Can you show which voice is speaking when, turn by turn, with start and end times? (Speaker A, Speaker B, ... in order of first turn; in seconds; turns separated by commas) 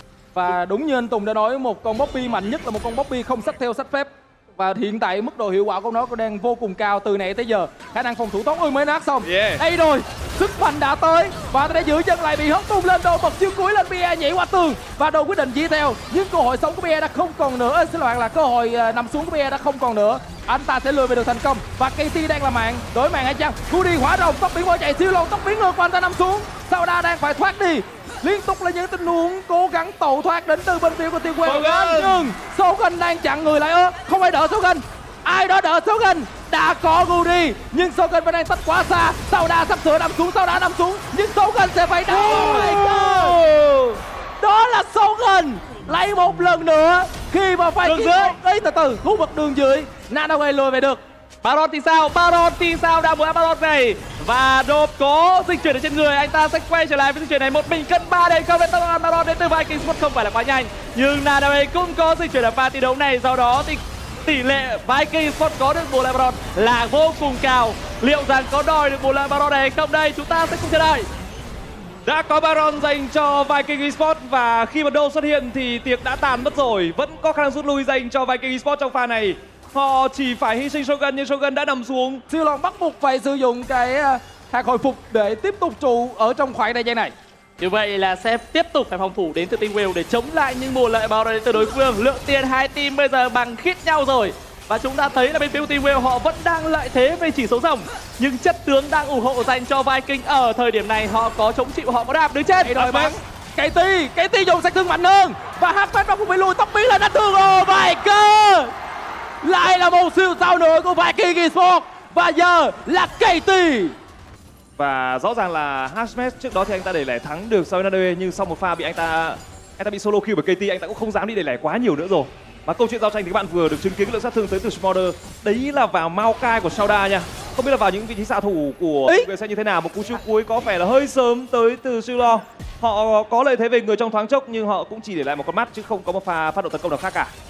Speaker A: 0.3-43.4, Speaker B: 9.2-9.6, Speaker B: 31.5-32.1, Speaker C: 31.6-31.9, Speaker C: 42.1-44.0, Speaker A: 44.4-51.0, Speaker C: 47.9-48.4, Speaker C: 51.4-71.1, Speaker B: 72.1-82.2, Speaker A: 82.3-87.1, Speaker C: 87.6-103.2, Speaker A: 102.6-108.7, Speaker A: 109.4-113.9, Speaker B: 114.8-137.3